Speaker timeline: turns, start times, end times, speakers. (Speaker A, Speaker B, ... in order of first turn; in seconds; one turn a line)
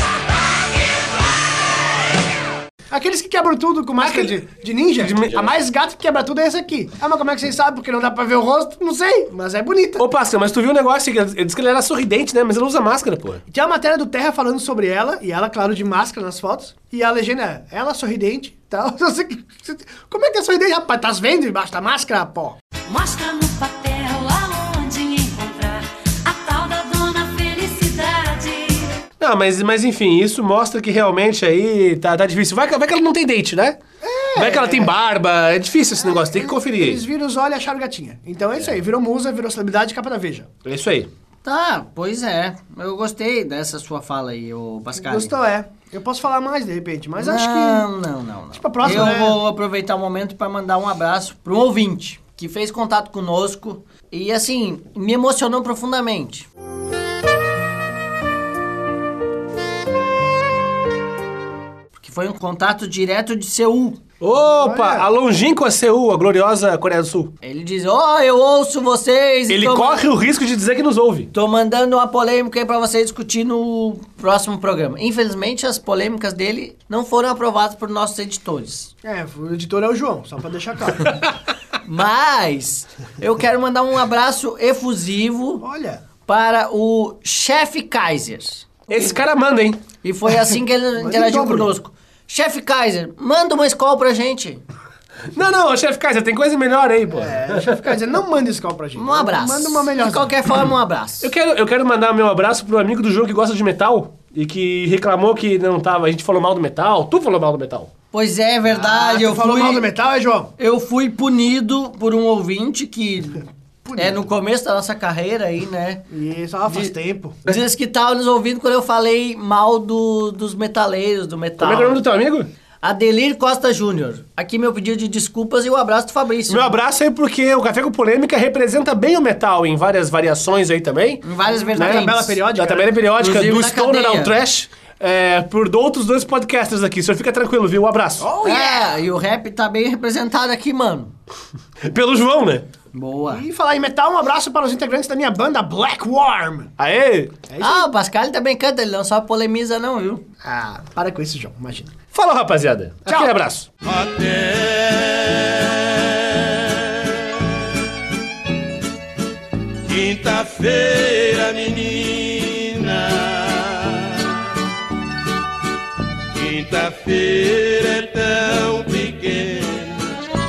Speaker A: 2.9-10.0
Speaker B: 4.0-4.4
Speaker B: 5.0-5.5
Speaker B: 10.0-13.4
Speaker A: 13.5-22.6
Speaker C: 22.9-28.9
Speaker B: 29.2-33.8
Speaker A: 34.0-34.9
Speaker B: 34.3-37.0
Speaker A: 36.1-40.5
Speaker B: 40.6-41.1
Speaker D: 41.4-45.3
Speaker A: 45.0-47.9
Speaker D: 47.2-56.5
Speaker A: 48.5-49.4
Speaker D: 62.0-64.0
Speaker B: 64.2-67.3
Speaker A: 64.5-65.0
Speaker D: 67.4-70.1
Speaker B: 69.5-71.3
Speaker D: 71.3-78.9
Speaker A: 79.0-81.1
Speaker D: 81.8-85.6
Speaker A: 85.6-86.0
Speaker D: 86.2-88.9
Speaker B: 88.9-89.8
Speaker D: 90.0-94.6
Speaker A: 91.0-91.7
Speaker B: 95.3-98.0
Speaker A: 97.1-100.3
Speaker D: 99.0-101.3
Speaker B: 101.2-107.9
Speaker D: 108.1-109.9
Speaker A: 108.7-110.5
Speaker D: 110.6-116.0
Speaker A: 113.8-114.2
Speaker A: 116.1-117.4
Speaker D: 117.5-122.0
Speaker B: 121.6-122.5
Speaker D: 122.8-126.7
Speaker B: 126.5-131.2
Speaker D: 131.2-132.3
Speaker A: 131.6-132.9
Speaker B: 131.7-138.3
Speaker D: 133.2-134.3
Speaker A: 138.2-139.0
Speaker D: 138.4-141.1
Speaker B: 141.8-142.7
Speaker D: 142.9-143.4
Speaker A: 143.3-146.7
Speaker B: 146.8-147.3
Speaker A: 147.5-147.9
Speaker D: 147.6-150.2
Speaker A: 150.4-151.9
Speaker B: 152.1-153.7
Speaker A: 153.1-153.3
Speaker E: 153.8-155.5
Speaker E: 159.9-163.9
Speaker E: 166.3-169.9